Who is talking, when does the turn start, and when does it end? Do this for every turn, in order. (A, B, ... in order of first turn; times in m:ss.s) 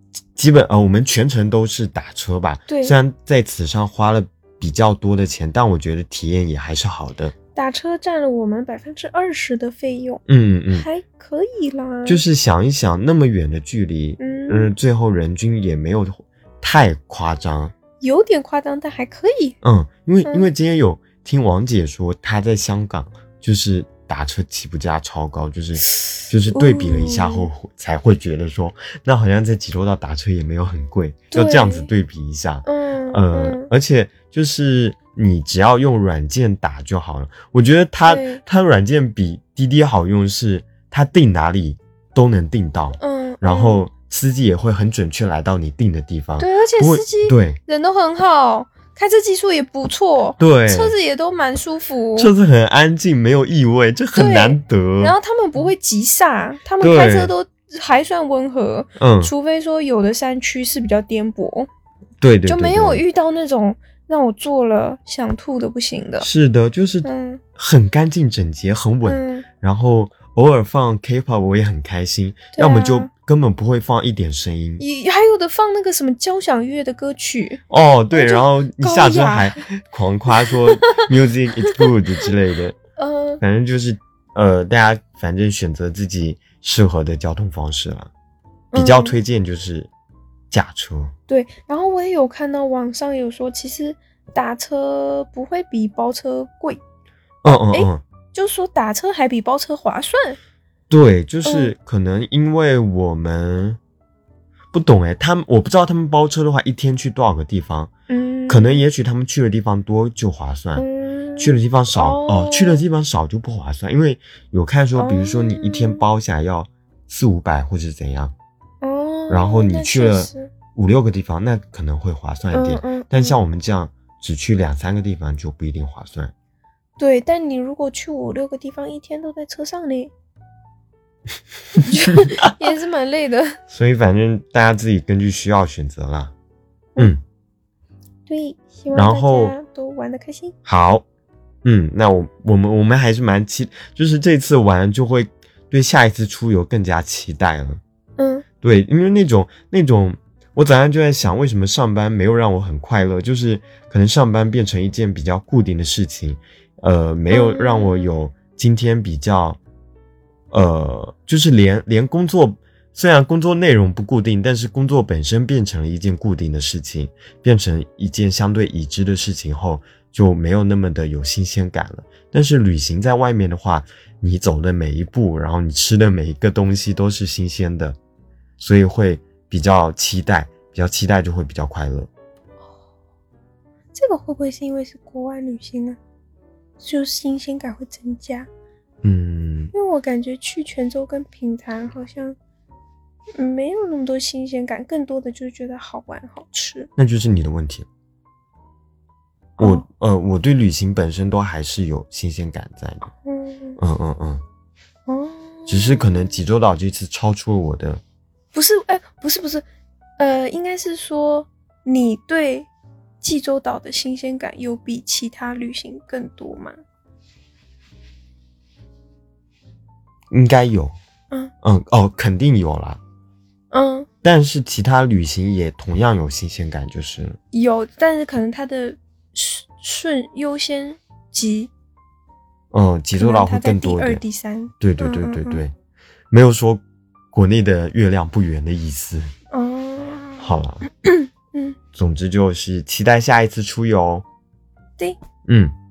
0:00.4-0:07.3 A
0:02.7-0:02.9 B
0:07.5-0:10.2 B
0:10.3-0:10.9 A
0:10.7-0:12.2 B
0:12.0-0:17.7 A
0:14.2-0:14.7 B
0:18.0-0:19.6 B
0:19.6-0:47.6 A
0:20.2-0:20.5 B
0:26.0-0:27.5 B
0:31.3-0:31.9 B
0:32.6-0:33.7 B
0:38.1-0:38.4 B
0:43.0-0:43.8 B
0:46.4-0:52.3 B
0:50.4-0:51.0 A
0:52.2-0:55.2 A
0:54.1-1:01.7 B
0:56.8-0:57.3 A
0:59.0-0:59.3 A
1:02.2-1:03.0 A
1:02.5-1:06.3 B
1:06.2-1:14.8 A
1:07.0-1:07.4 B
1:09.0-1:09.4 B
1:12.5-1:13.1 B
1:14.8-1:17.6 B
1:17.7-1:22.8 A
1:18.1-1:19.6 B
1:20.4-1:21.9 B
1:23.0-1:23.4 B
1:23.4-1:28.1 A
1:28.7-1:29.1 B
1:28.7-1:29.9 A
1:30.5-1:31.1 A
1:31.3-1:36.8 B
1:37.4-1:38.0 A
1:37.4-1:40.4 B
1:40.9-1:43.8 A
1:41.4-1:41.7 B
1:44.7-1:47.9 A
1:48.1-1:48.8 B
1:48.5-1:50.8 A
1:50.8-1:52.8 B
1:51.4-1:58.3 A
1:55.0-1:56.0 B
1:58.8-2:00.5 B
1:59.3-2:06.3 A
2:02.5-2:03.4 B
2:07.0-2:10.1 B
2:11.8-2:13.6 B
2:12.0-2:12.4 A
2:13.7-2:16.3 A
2:18.3-2:20.5 B
2:18.9-2:19.6 A
2:20.6-2:21.0 A
2:21.6-2:27.8 A
2:28.2-2:28.4 B
2:28.6-2:39.6 A
2:37.3-2:38.1 B
2:40.5-2:58.0 A
2:58.6-3:02.1 A
3:03.9-3:06.0 B
3:06.8-3:08.5 B
3:09.0-3:09.7 A
3:09.7-3:12.4 B
3:13.4-3:16.9 B
3:17.0-3:17.9 A
3:19.6-3:23.1 A
3:23.2-3:23.8 B
3:23.8-3:24.4 A
3:25.1-3:26.1 B
3:25.7-3:28.0 A
3:28.5-3:29.6 B
3:30.2-3:32.7 B
3:33.2-3:36.8 B
3:40.3-3:40.9 A
3:41.6-3:43.0 A
3:43.7-3:44.1 B
3:44.2-3:47.4 A
3:47.5-3:51.7 B
3:52.7-3:54.2 A
3:53.2-3:55.6 B
3:54.8-3:55.7 A
3:56.3-3:56.8 A
3:57.3-3:59.3 A
3:59.5-4:01.8 B
4:00.4-4:00.8 A
4:01.9-4:04.2 A
4:05.4-4:05.7 A